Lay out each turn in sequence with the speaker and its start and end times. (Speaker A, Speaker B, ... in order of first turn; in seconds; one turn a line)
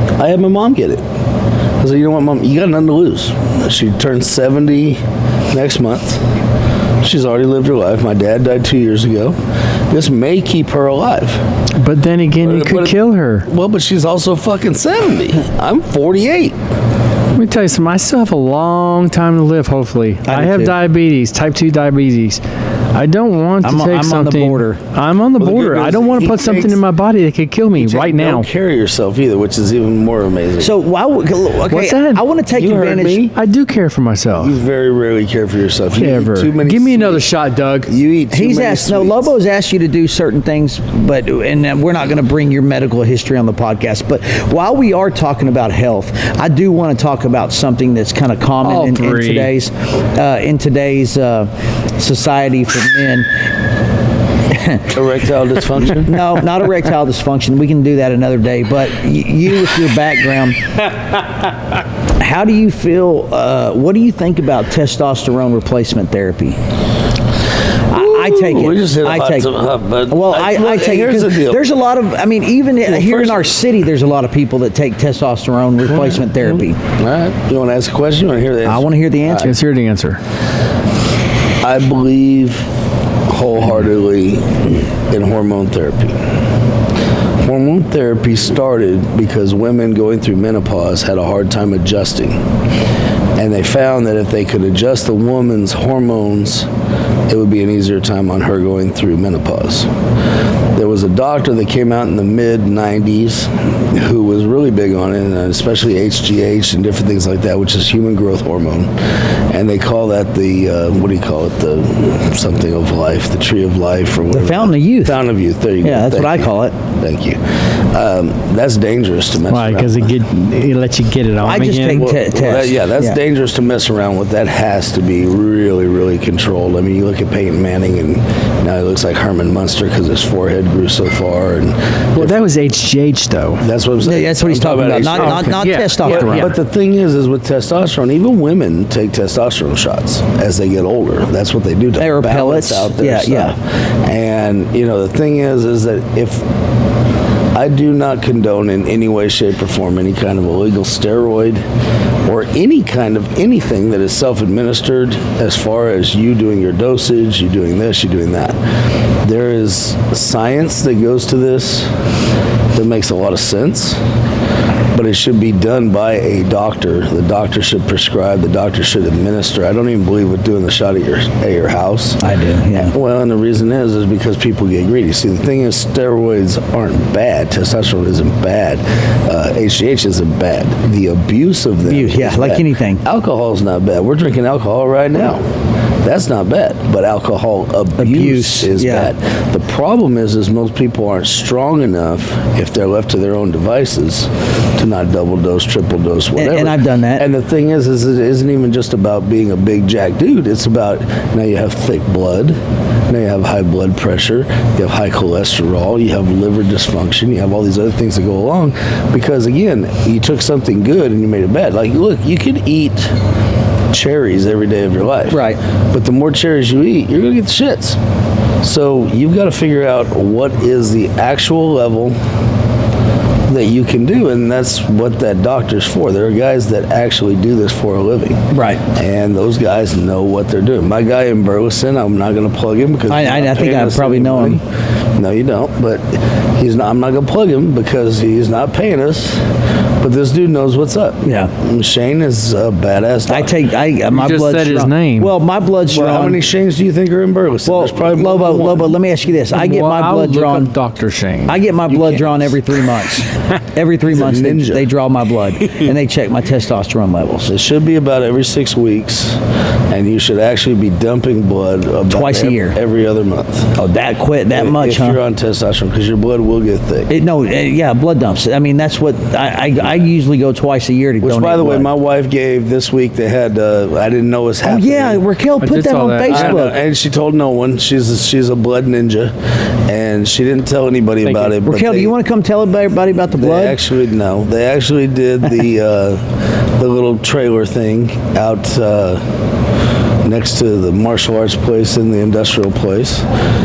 Speaker A: 0.2-1.0
Speaker A: 1.8-5.0
Speaker A: 5.5-6.2
Speaker A: 7.0-9.4
Speaker A: 9.9-11.4
Speaker B: 11.8-13.5
Speaker A: 12.4-16.6
Speaker B: 17.3-22.4
Speaker C: 20.3-20.8
Speaker B: 22.9-28.5
Speaker C: 23.6-24.8
Speaker A: 25.4-26.8
Speaker A: 27.8-30.7
Speaker C: 30.6-33.3
Speaker B: 31.7-32.2
Speaker A: 32.5-33.4
Speaker B: 33.3-34.6
Speaker A: 34.4-37.3
Speaker B: 36.0-37.9
Speaker A: 37.9-39.3
Speaker C: 38.3-53.3
Speaker B: 48.6-49.5
Speaker C: 54.5-54.9
Speaker A: 54.9-56.2
Speaker C: 56.0-60.8
Speaker C: 62.2-66.6
Speaker C: 67.9-69.5
Speaker A: 67.9-71.6
Speaker C: 70.1-76.8
Speaker A: 72.9-73.5
Speaker A: 77.0-79.5
Speaker C: 78.7-79.5
Speaker B: 79.4-80.2
Speaker A: 81.6-82.7
Speaker A: 83.3-86.2
Speaker A: 87.4-92.4
Speaker A: 93.4-96.7
Speaker A: 97.3-99.9
Speaker A: 100.7-120.1
Speaker C: 114.3-115.2
Speaker C: 115.8-116.8
Speaker B: 119.5-122.2
Speaker C: 121.4-123.2
Speaker A: 121.9-132.4
Speaker B: 132.2-133.6
Speaker A: 133.6-146.5
Speaker C: 134.0-136.5
Speaker B: 135.2-136.6
Speaker C: 142.0-143.6
Speaker A: 147.5-151.6
Speaker A: 152.2-158.6
Speaker A: 159.2-161.9
Speaker A: 162.7-164.0
Speaker A: 164.9-172.2
Speaker C: 172.2-172.9
Speaker A: 172.7-185.5
Speaker C: 181.9-183.0
Speaker A: 186.0-202.6
Speaker C: 188.0-189.1
Speaker C: 196.4-197.3
Speaker A: 203.1-213.2
Speaker A: 213.9-218.0
Speaker C: 215.3-215.6
Speaker A: 218.6-222.2
Speaker A: 223.5-234.6
Speaker C: 228.5-228.8
Speaker C: 233.1-234.6
Speaker A: 235.2-239.4
Speaker A: 240.0-243.6
Speaker C: 241.2-241.5
Speaker C: 243.3-246.4
Speaker B: 244.1-245.3
Speaker A: 245.9-249.0
Speaker C: 247.7-250.7
Speaker B: 249.5-251.6
Speaker C: 251.5-257.5
Speaker A: 251.9-252.6
Speaker A: 254.1-254.9
Speaker A: 257.5-263.8
Speaker C: 262.1-262.8
Speaker C: 263.8-265.2
Speaker A: 264.5-267.1
Speaker C: 267.1-271.9
Speaker A: 271.2-275.2
Speaker C: 274.6-276.8
Speaker B: 275.6-276.6
Speaker A: 276.3-279.3
Speaker A: 279.9-282.1
Speaker B: 281.2-281.6
Speaker C: 281.6-283.8
Speaker A: 283.3-286.2
Speaker A: 286.8-289.2
Speaker A: 290.2-293.3